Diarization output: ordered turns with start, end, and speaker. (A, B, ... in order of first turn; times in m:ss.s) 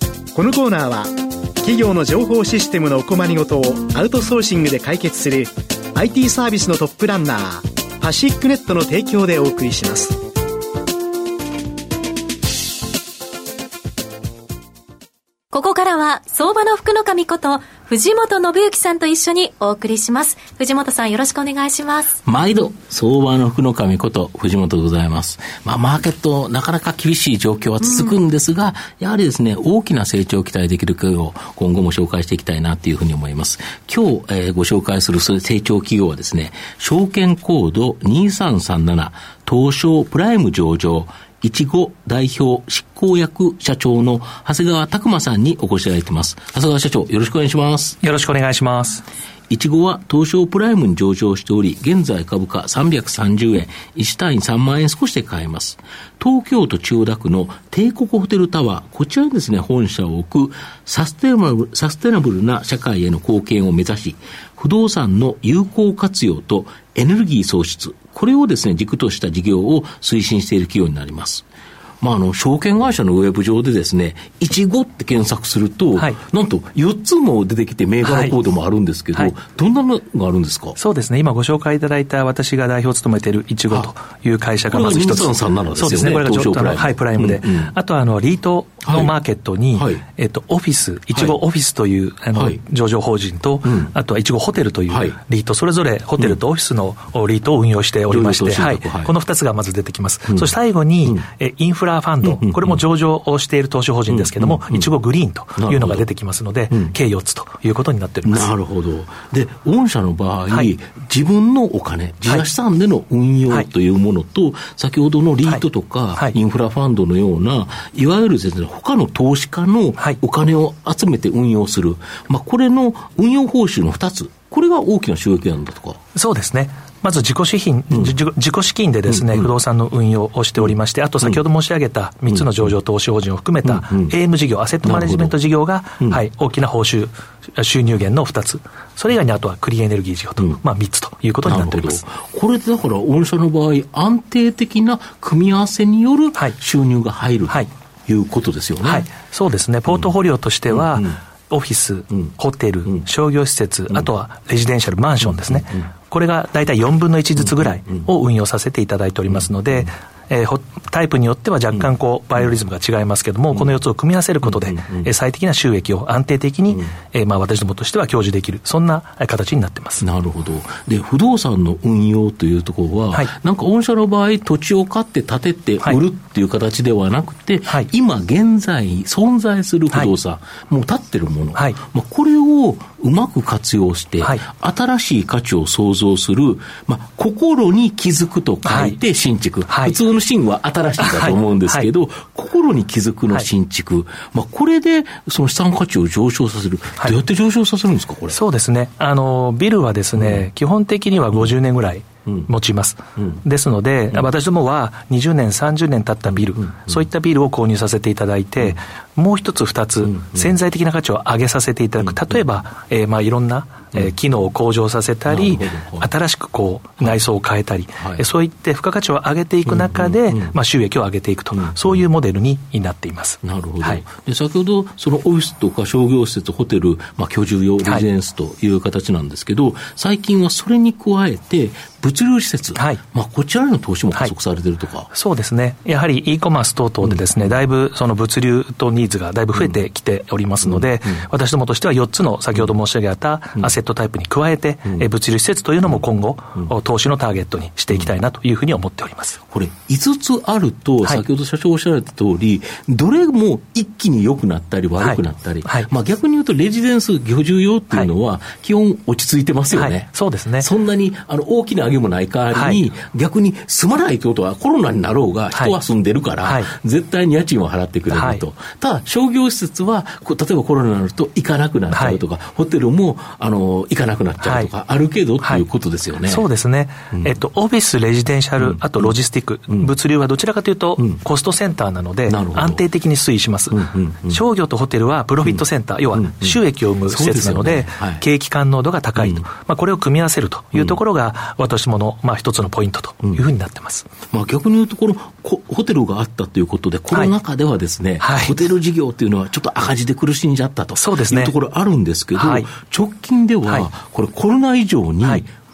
0:00.4-0:10.2 A
0:15.5-0:22.2 B
0:22.2-0:48.0 C
0:48.0-0:49.0 D
0:49.5-1:11.4 C
1:12.0-1:20.8 C
1:18.0-1:18.4 D
1:20.8-1:48.5 D
1:24.7-1:27.7 C
1:28.8-1:29.1 C
1:29.7-1:30.0 C
1:32.3-1:32.6 C
1:33.6-1:33.9 C
1:34.9-1:35.2 C
1:38.1-1:39.1 C
1:42.2-1:42.8 C
1:44.1-1:44.9 C
1:45.6-1:46.0 C
1:48.3-2:06.0 C
2:06.1-2:22.0 D
2:09.1-2:09.5 C
2:10.6-2:11.4 C
2:12.3-2:12.7 C
2:13.6-2:14.1 C
2:14.8-2:15.4 C
2:21.4-2:29.1 C
2:28.8-2:50.0 D
2:30.7-2:31.2 C
2:35.2-2:35.9 C
2:37.4-2:38.0 C
2:39.3-2:39.9 C
2:44.4-2:45.1 C
2:50.0-3:18.4 C
3:08.6-3:09.0 D
3:09.7-3:10.0 D
3:11.0-3:11.9 D
3:18.3-3:44.0 D
3:20.2-3:20.4 C
3:26.3-3:27.1 C
3:30.0-3:30.6 C
3:32.0-3:32.4 C
3:35.3-3:36.1 C
3:38.0-3:38.2 C
3:39.7-3:40.6 C
3:41.5-3:42.1 C
3:43.4-3:55.1 C
3:52.8-3:53.0 D
3:55.1-4:09.4 D
3:57.0-3:57.5 C
4:00.6-4:01.2 C
4:09.5-4:36.4 C
4:15.0-4:15.9 D
4:19.7-4:20.7 D
4:22.5-4:22.8 D
4:26.4-4:26.7 D
4:28.1-4:28.4 D
4:31.9-4:32.2 D
4:34.4-4:34.7 D
4:36.2-4:54.1 D
4:38.6-4:39.1 C
4:42.3-4:42.8 C
4:43.7-4:44.4 C
4:45.4-4:48.2 C
4:49.2-4:49.4 C
4:54.3-5:05.5 C
4:58.2-4:58.6 D
5:01.0-5:01.5 D
5:02.4-5:02.7 D